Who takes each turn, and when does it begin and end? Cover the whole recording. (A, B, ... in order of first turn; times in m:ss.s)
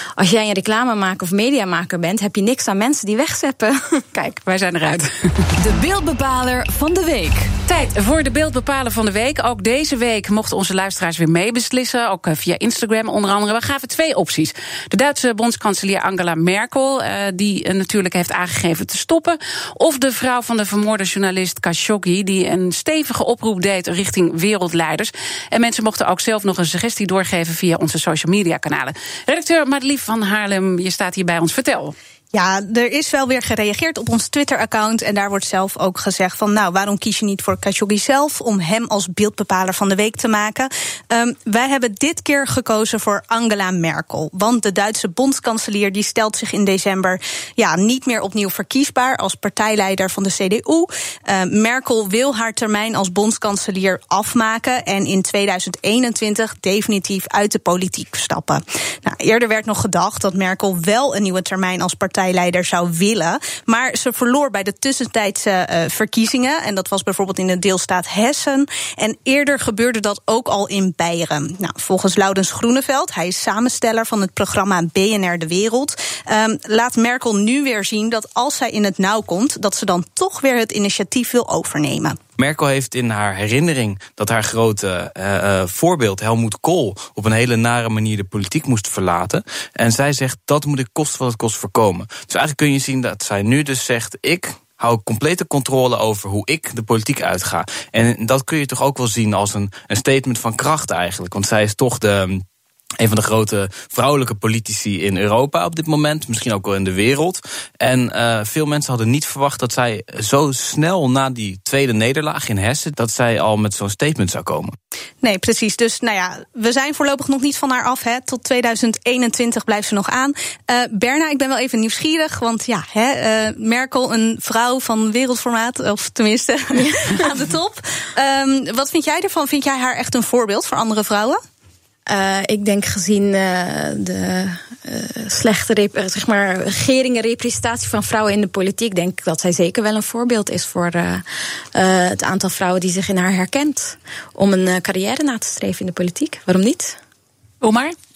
0:00.2-0:04.0 A
0:04.1-0:05.5 B
0:05.6-0:07.5 C
0:07.6-0:32.0 B
0:32.3-1:22.2 D
1:22.4-1:42.4 E
1:43.0-1:54.8 E
1:55.2-2:11.4 D
2:12.1-2:21.2 A
2:21.8-2:27.0 A
2:27.6-2:28.0 B